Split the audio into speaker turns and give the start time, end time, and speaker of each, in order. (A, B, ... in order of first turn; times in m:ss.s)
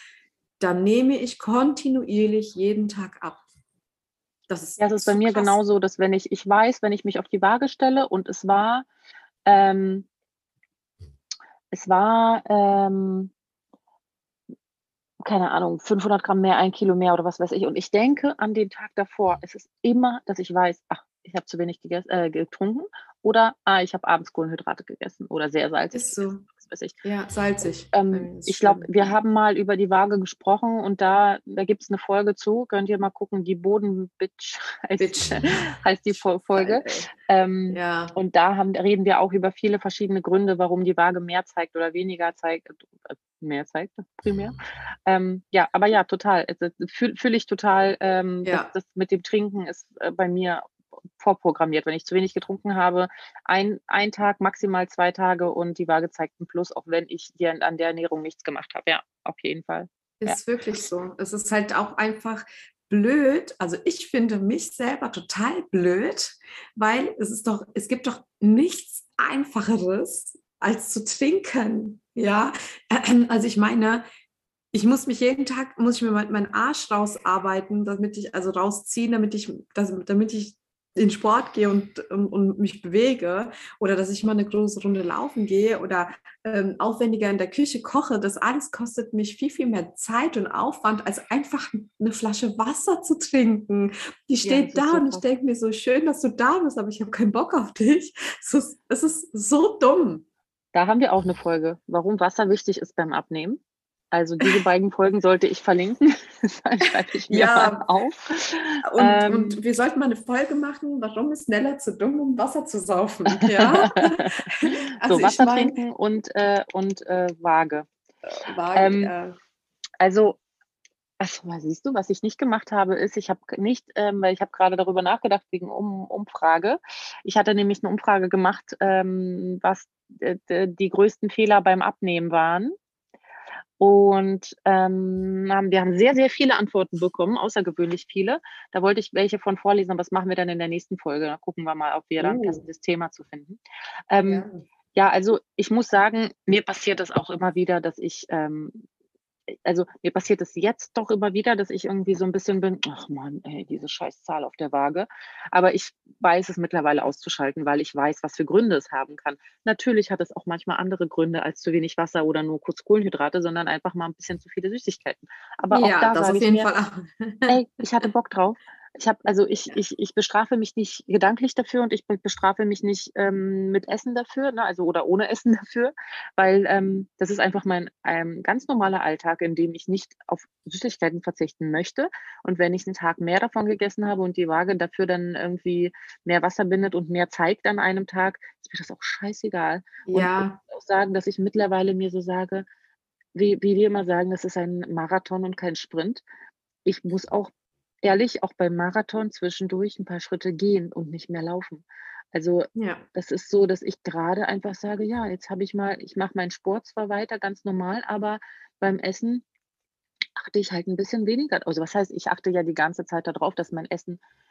0:00.6-0:03.4 A
0:04.5-0:05.6 A
0:04.8-0:08.9 B
0:09.5-0:10.1 B
0:11.7-0:13.3 B
0:15.2-0:27.0 B
0:25.9-0:26.4 A
0:27.0-0:29.0 A
0:27.9-1:00.4 B
0:35.0-0:37.1 A
0:37.7-0:38.2 A
0:48.4-0:48.7 A
1:00.2-1:14.0 A
1:14.7-1:40.2 A
1:34.4-1:35.2 B
1:40.7-1:43.6 B
1:44.1-1:49.6 B
1:47.3-1:47.8 A
1:48.9-1:55.8 A
1:53.4-1:57.9 B
1:58.3-1:59.4 A
1:58.7-1:59.1 B
2:00.0-2:00.4 B
2:01.2-2:12.8 B
2:13.8-2:28.8 B
2:22.2-2:22.6 A
2:24.2-2:24.7 A
2:29.5-2:46.7 B
2:45.7-2:47.6 A
2:47.5-3:12.7 B
3:10.1-3:10.6 A
3:13.3-3:16.2 B
3:16.8-3:17.5 B
3:18.0-3:29.4 B
3:22.8-3:23.0 A
3:30.4-3:34.2 B